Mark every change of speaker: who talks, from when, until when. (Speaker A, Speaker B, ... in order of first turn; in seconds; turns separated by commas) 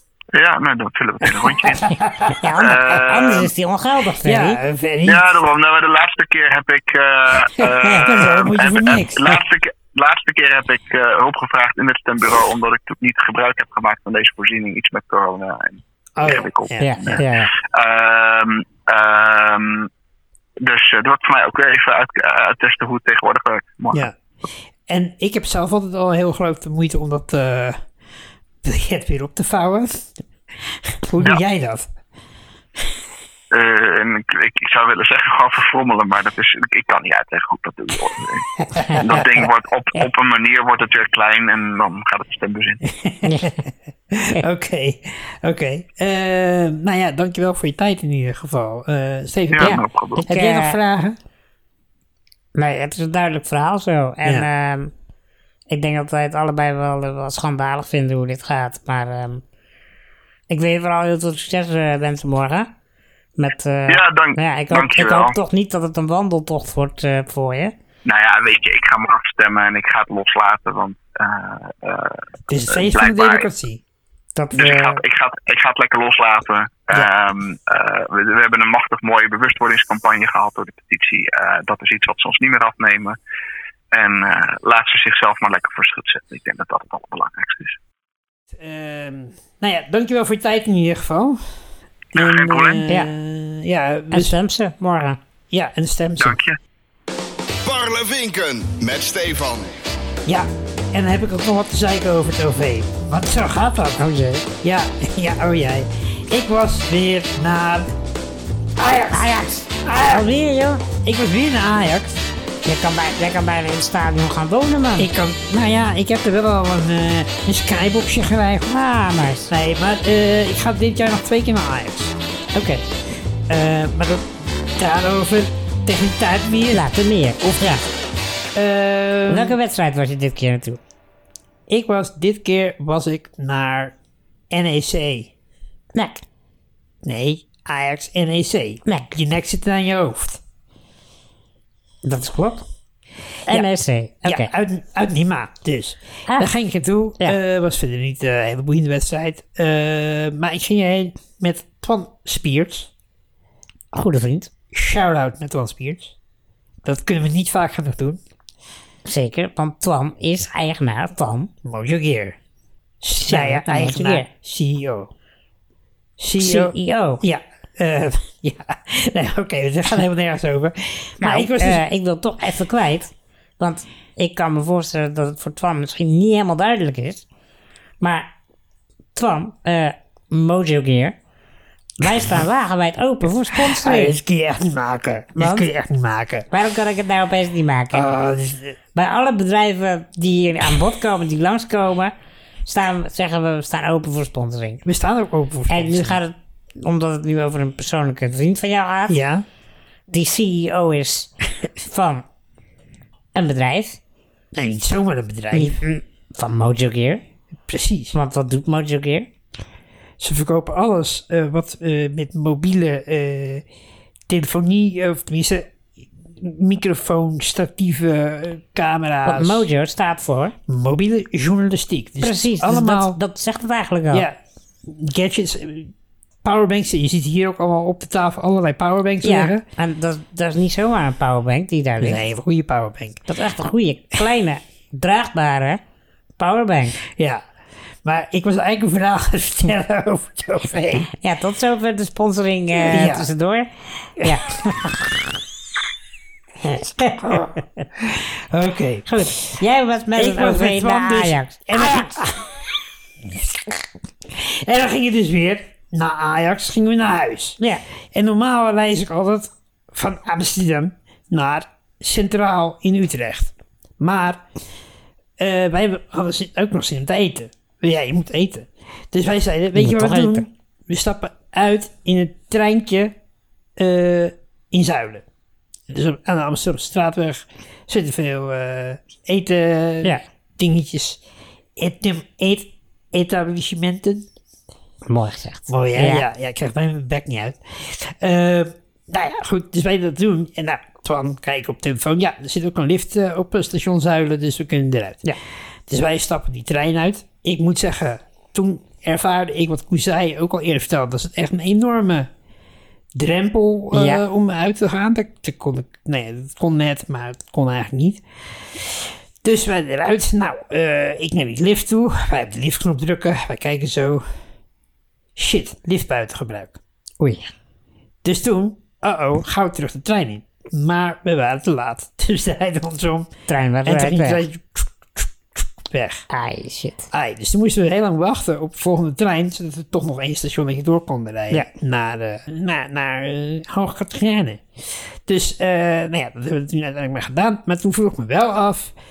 Speaker A: 0.3-1.9, Speaker B: 1.6-2.4, Speaker C: 2.4-4.6, Speaker A: 2.6-3.5, Speaker B: 4.2-5.3, Speaker A: 5.0-19.9, Speaker B: 7.6-9.4, Speaker B: 16.2-17.2, Speaker C: 16.8-17.5, Speaker A: 20.6-24.1, Speaker B: 24.9-27.8, Speaker B: 28.6-30.1, Speaker B: 31.0-31.9, Speaker A: 33.5-42.8, Speaker B: 38.7-39.5, Speaker B: 42.9-51.2, Speaker C: 43.2-43.5, Speaker A: 49.5-50.2, Speaker C: 50.2-50.8, Speaker C: 52.5-54.9, Speaker C: 55.7-59.4, Speaker C: 60.5-62.7, Speaker C: 63.4-67.7, Speaker A: 63.9-65.3, Speaker A: 68.0-73.5, Speaker B: 72.5-73.8, Speaker C: 74.3-75.0, Speaker A: 74.5-83.2, Speaker A: 83.9-87.8, Speaker B: 88.5-91.4, Speaker A: 92.1-92.8, Speaker B: 92.1-94.3, Speaker C: 94.1-95.2, Speaker B: 95.5-96.4, Speaker A: 96.2-96.5, Speaker D: 97.6-99.8, Speaker B: 100.2-104.0, Speaker C: 104.0-104.5, Speaker B: 104.6-107.9, Speaker B: 108.8-109.3, Speaker C: 109.1-110.8, Speaker B: 109.8-110.2, Speaker B: 111.0-112.2, Speaker C: 112.6-115.1, Speaker B: 115.0-118.7, Speaker C: 118.7-119.5, Speaker B: 119.5-122.1, Speaker C: 122.5-122.8, Speaker B: 123.5-126.8, Speaker C: 126.7-127.8, Speaker B: 127.4-127.8, Speaker B: 128.5-129.6, Speaker C: 129.3-130.8, Speaker B: 131.7-133.9, Speaker B: 134.5-135.3, Speaker C: 135.9-136.2, Speaker B: 137.0-140.4, Speaker C: 138.8-139.1, Speaker C: 142.0-142.7, Speaker C: 143.5-144.5, Speaker B: 144.2-152.9, Speaker C: 153.9-154.5, Speaker B: 154.7-156.1, Speaker B: 156.8-158.2, Speaker C: 159.0-161.5, Speaker B: 161.6-162.4, Speaker B: 163.0-165.1, Speaker C: 163.2-164.3, Speaker B: 166.2-171.8, Speaker C: 166.4-167.2, Speaker C: 171.2-177.2, Speaker C: 178.0-178.3, Speaker C: 179.1-181.2, Speaker C: 182.0-184.2, Speaker B: 183.5-186.5, Speaker C: 185.4-185.7, Speaker C: 186.5-188.1, Speaker B: 187.9-188.8, Speaker C: 188.9-192.1, Speaker C: 192.7-194.8, Speaker B: 194.8-196.2, Speaker C: 195.7-199.2, Speaker B: 199.1-199.4, Speaker C: 200.1-202.2, Speaker C: 203.3-204.0, Speaker B: 204.5-205.8, Speaker C: 205.5-207.2, Speaker B: 207.7-208.2, Speaker C: 208.1-209.3, Speaker B: 210.2-213.6, Speaker B: 214.3-215.7, Speaker B: 216.4-219.7, Speaker C: 219.2-220.6, Speaker B: 220.7-223.2, Speaker C: 222.2-224.3, Speaker B: 224.1-225.9, Speaker B: 226.4-229.6, Speaker C: 229.2-232.2, Speaker B: 232.0-233.2, Speaker C: 233.3-235.8, Speaker C: 236.4-237.0, Speaker B: 237.1-237.4, Speaker B: 238.0-241.1, Speaker C: 241.1-245.2, Speaker B: 242.8-243.3, Speaker C: 246.6-247.8, Speaker B: 247.2-249.6, Speaker C: 249.1-252.1, Speaker B: 250.2-252.5, Speaker B: 254.3-257.6, Speaker B: 258.1-264.4, Speaker B: 265.4-273.1, Speaker C: 269.7-270.5, Speaker B: 273.8-275.2, Speaker B: 275.9-281.2, Speaker B: 281.8-284.3, Speaker C: 285.1-286.2, Speaker B: 285.7-295.2, Speaker B: 295.9-302.3, Speaker B: 303.1-308.2, Speaker C: 303.9-304.2, Speaker B: 309.4-314.2, Speaker B: 315.4-316.8, Speaker C: 317.2-317.5, Speaker B: 318.2-323.3, Speaker C: 323.5-324.4, Speaker B: 323.8-326.2, Speaker C: 326.3-327.1, Speaker B: 327.1-338.9